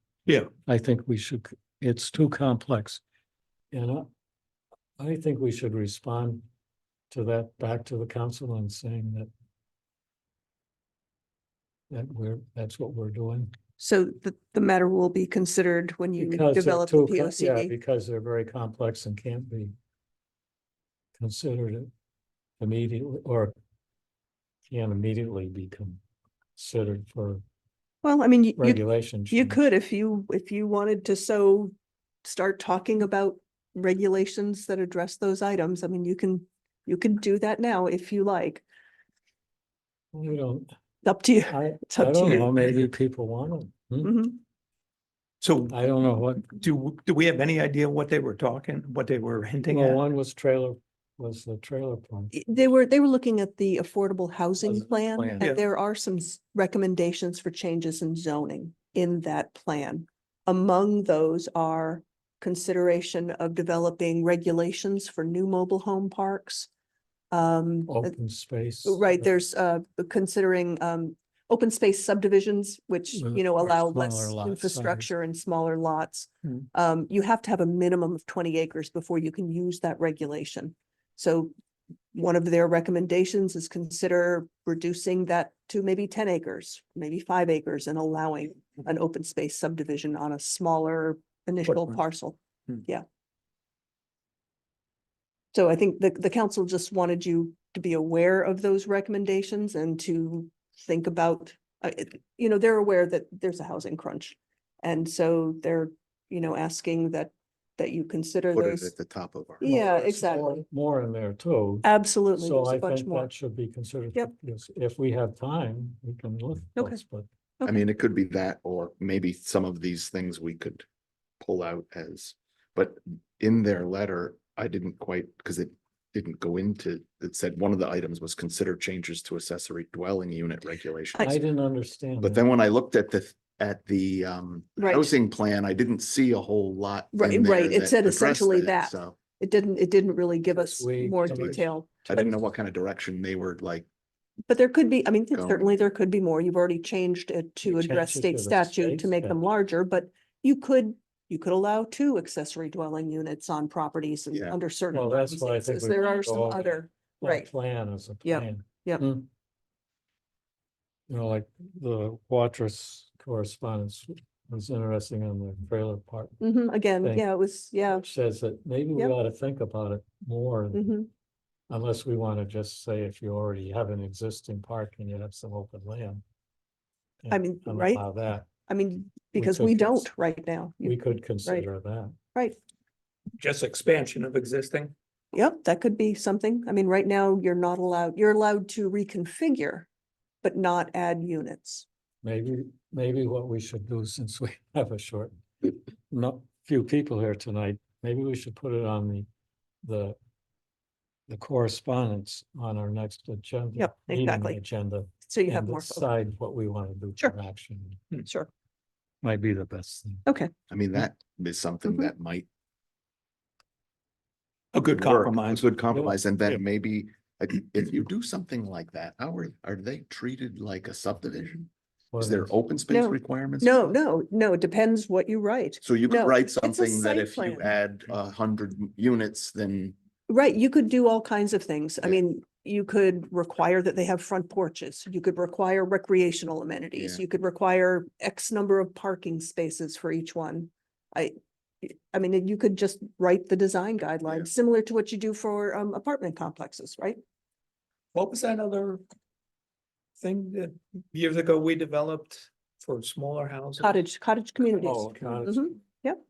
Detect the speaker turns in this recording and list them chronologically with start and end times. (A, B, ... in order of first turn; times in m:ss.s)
0:00.7-0:03.0 A
0:03.7-0:04.1 A
0:05.0-0:06.4 A
0:07.1-0:09.3 A
0:11.9-0:13.5 A
0:13.8-0:17.7 B
0:16.2-0:19.7 A
0:21.2-0:21.9 A
0:22.6-0:23.5 A
0:24.7-0:26.0 A
0:26.6-0:27.4 A
0:28.0-0:31.7 B
0:28.6-0:29.6 A
0:32.2-0:38.6 B
0:40.1-0:40.7 A
0:41.0-0:42.5 B
0:41.5-0:44.2 A
0:42.2-0:42.8 C
0:44.0-0:44.4 B
0:45.4-0:45.8 C
0:45.7-0:46.5 A
0:46.4-0:50.0 C
0:49.7-0:52.3 A
0:52.3-1:06.7 B
0:54.6-0:55.6 A
1:07.3-1:08.1 B
1:07.9-1:09.3 A
1:08.8-1:21.5 B
1:13.1-1:15.1 A
1:22.1-1:33.0 B
1:31.7-1:32.0 C
1:35.5-1:48.9 B
1:48.5-1:49.7 D
1:49.6-1:50.6 B
1:49.6-1:57.3 A
1:51.8-1:53.3 B
1:57.6-2:00.8 D
2:01.4-2:11.3 D
2:11.2-2:12.5 A
2:12.2-2:19.2 D
2:14.8-2:15.1 B
2:17.1-2:21.9 B
2:20.5-2:22.5 A
2:22.1-2:23.9 D
2:24.5-2:37.5 B
2:25.3-2:25.6 D
2:27.6-2:29.4 A
2:34.9-2:39.3 A
2:38.2-2:39.0 B
2:41.1-2:46.4 A
2:46.4-2:48.1 B
2:47.9-2:50.9 A
2:50.7-2:51.1 B
2:51.7-2:56.2 A
2:57.2-2:58.5 A
2:57.3-2:58.0 B
2:58.7-3:01.7 B
2:59.4-3:00.1 A
3:00.8-3:02.2 A
3:03.4-3:04.9 C
3:05.3-3:09.9 B
3:10.4-3:11.8 B
3:12.2-3:19.3 A
3:19.8-3:20.2 A
3:21.3-3:28.0 A
3:23.8-3:24.6 B
3:25.3-3:26.1 B
3:28.2-3:28.5 B
3:29.2-3:30.2 A
3:30.2-3:30.5 B
3:30.7-3:32.5 D
3:31.8-3:32.1 B
3:34.7-3:35.7 C
3:35.0-3:43.8 D
3:35.9-3:36.6 A
3:42.1-3:42.5 A
3:42.9-3:47.7 B
3:45.8-3:49.9 D
3:50.3-4:07.2 B
3:57.0-3:57.2 D
4:08.1-4:09.0 C
4:10.2-4:14.0 C
4:13.8-4:16.2 B
4:14.8-4:15.7 A
4:15.0-4:15.4 C